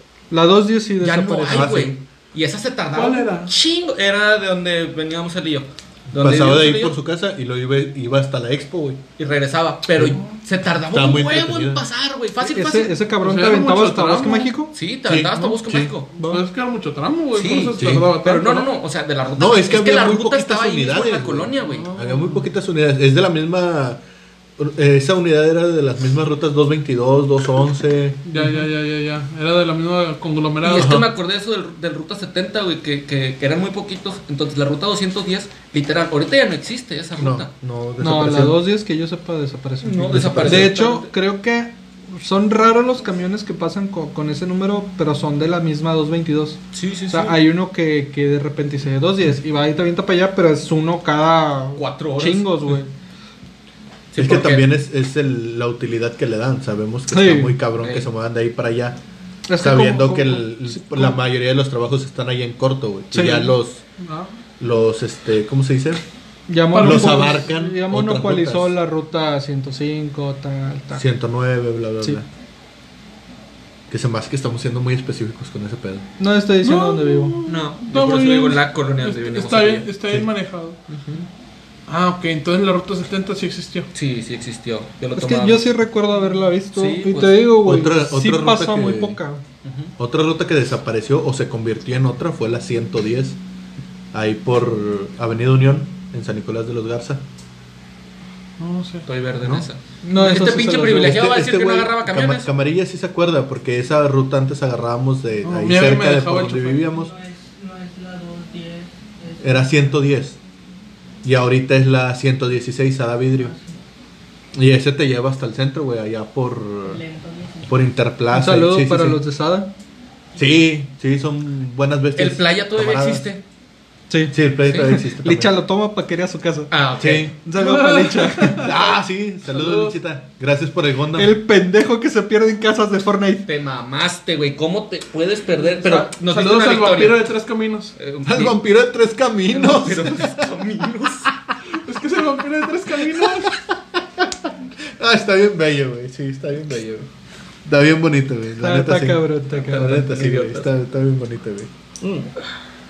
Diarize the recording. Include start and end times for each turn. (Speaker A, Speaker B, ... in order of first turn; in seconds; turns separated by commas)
Speaker A: 0.3-1.7, Speaker B: 1.0-6.9, Speaker C: 1.5-2.0, Speaker D: 2.9-3.5, Speaker C: 6.1-9.0, Speaker B: 9.2-12.9, Speaker C: 10.9-11.8, Speaker A: 12.4-14.7, Speaker D: 13.2-14.5, Speaker B: 14.7-16.1, Speaker C: 15.1-15.9, Speaker A: 16.2-16.4, Speaker D: 16.2-18.7, Speaker B: 17.3-21.9, Speaker C: 17.8-18.1, Speaker C: 19.4-24.0, Speaker D: 21.6-22.4, Speaker C: 24.6-28.2, Speaker D: 28.2-31.0, Speaker A: 28.4-28.6, Speaker B: 30.6-37.5, Speaker C: 30.7-31.1, Speaker C: 37.2-38.6, Speaker A: 38.0-52.9, Speaker B: 39.8-41.1, Speaker C: 40.0-40.7, Speaker B: 46.7-47.4, Speaker B: 51.8-52.5, Speaker B: 54.1-54.7, Speaker C: 54.1-59.0, Speaker A: 57.1-57.6, Speaker B: 57.8-58.0, Speaker A: 59.5-61.2, Speaker C: 59.6-63.8, Speaker A: 63.1-63.5, Speaker D: 64.0-64.3, Speaker C: 64.6-66.0, Speaker A: 66.5-71.0, Speaker D: 66.7-67.4, Speaker C: 66.7-68.8, Speaker C: 70.9-72.2, Speaker C: 73.9-76.1, Speaker A: 76.2-77.4, Speaker D: 76.6-80.8, Speaker B: 77.4-79.9, Speaker B: 80.9-81.3, Speaker D: 81.9-83.9, Speaker B: 83.9-85.7, Speaker A: 85.2-89.4, Speaker B: 86.7-87.5, Speaker C: 87.6-89.2, Speaker B: 89.6-89.9, Speaker C: 90.0-93.4, Speaker C: 94.1-97.2, Speaker D: 98.6-99.0, Speaker B: 99.0-102.5, Speaker A: 100.0-101.2, Speaker C: 100.8-107.1, Speaker D: 105.4-106.9, Speaker E: 106.8-109.9, Speaker C: 109.4-110.4, Speaker C: 111.2-113.5, Speaker E: 113.4-113.8, Speaker C: 114.5-117.0, Speaker E: 116.8-117.8, Speaker C: 117.7-119.2, Speaker A: 118.3-119.7, Speaker C: 120.4-123.3, Speaker B: 122.2-123.4, Speaker A: 124.1-126.7, Speaker C: 124.3-125.5, Speaker B: 124.7-125.0, Speaker B: 126.7-127.3, Speaker C: 127.0-127.3, Speaker A: 127.4-128.7, Speaker D: 127.5-129.0, Speaker C: 128.6-131.3, Speaker D: 129.5-129.9, Speaker A: 131.1-133.4, Speaker B: 133.5-137.3, Speaker D: 135.6-137.9, Speaker B: 138.0-138.6, Speaker C: 138.2-140.6, Speaker B: 139.5-141.3, Speaker D: 141.7-143.6, Speaker C: 143.2-147.1, Speaker C: 147.6-151.7, Speaker A: 148.6-150.1, Speaker B: 149.5-150.7